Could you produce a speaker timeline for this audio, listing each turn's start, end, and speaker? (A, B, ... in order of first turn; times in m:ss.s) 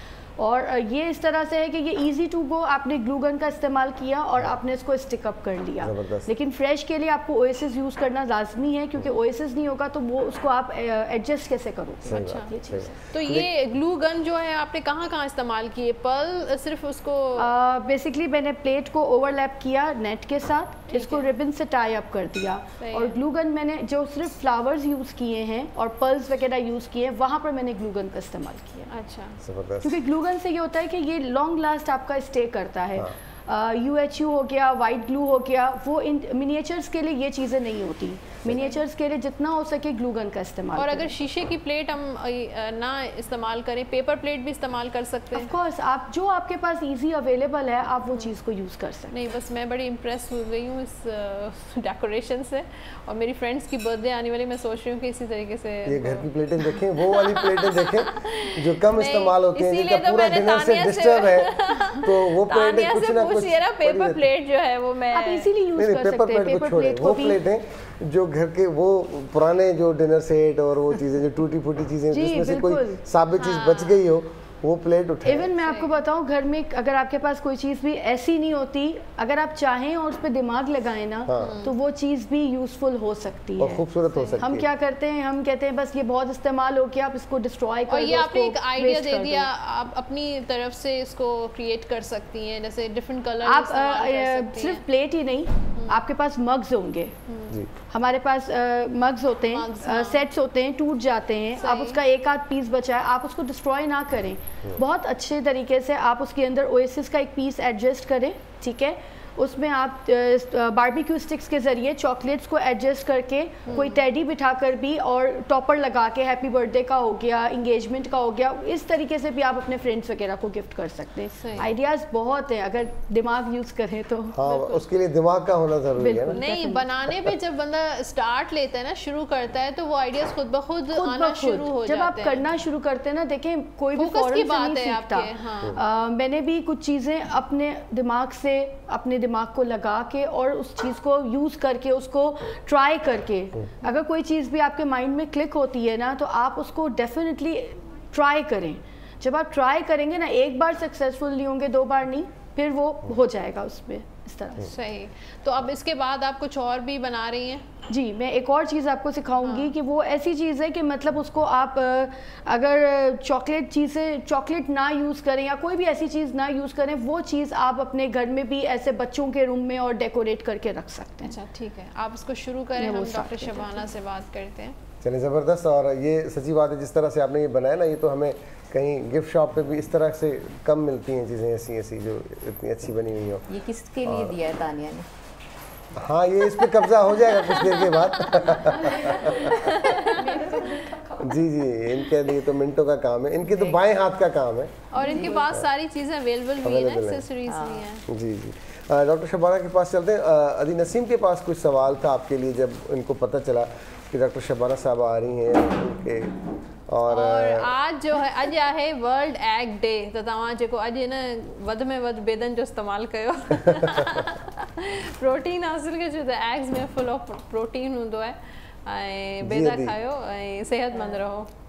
0:00.4-0:12.9 A
0:05.8-0:06.3 B
0:12.0-0:13.5 B
0:12.1-0:12.6 C
0:13.1-0:17.5 C
0:17.4-0:28.9 A
0:20.9-0:21.3 C
0:22.8-0:23.2 C
0:28.9-0:29.4 C
0:29.4-0:30.0 B
0:29.8-0:41.2 A
0:40.8-0:45.5 C
0:45.3-0:49.2 A
0:48.1-0:48.4 C
0:49.1-0:56.3 C
0:55.9-1:04.2 B
0:57.0-1:05.5 C
1:05.1-1:07.4 A
1:05.8-1:15.5 B
1:12.1-1:13.0 A
1:13.4-1:14.0 C
1:15.2-1:23.9 A
1:15.6-1:15.9 C
1:21.3-1:21.6 B
1:21.4-1:21.8 C
1:23.6-1:24.7 B
1:24.1-1:24.4 C
1:24.4-1:29.5 A
1:27.9-1:34.8 C
1:33.4-1:37.2 A
1:35.8-1:36.0 C
1:37.3-1:37.6 C
1:37.9-2:04.8 A
1:39.4-1:40.2 C
1:41.6-1:42.0 C
1:53.7-1:54.0 C
2:01.4-2:01.7 C
2:04.3-2:06.4 B
2:06.0-2:07.0 A
2:06.3-2:12.5 C
2:10.9-2:34.8 A
2:13.9-2:15.8 C
2:34.6-2:37.7 C
2:37.9-2:51.4 A
2:39.4-2:39.8 C
2:51.2-2:54.8 C
2:52.8-2:53.9 A
2:55.0-3:03.5 B
3:03.5-3:05.1 D
3:04.1-3:04.4 B
3:06.0-3:09.6 B
3:06.6-3:10.6 C
3:08.9-3:09.5 A
3:09.8-3:11.2 D
3:10.4-3:10.8 A
3:11.2-3:14.9 B
3:14.9-3:18.0 C
3:15.0-3:15.4 D
3:16.6-3:17.3 B
3:17.5-3:17.9 D
3:18.1-3:27.7 B
3:27.1-3:41.5 C
3:39.4-3:40.0 B
3:40.9-3:41.2 D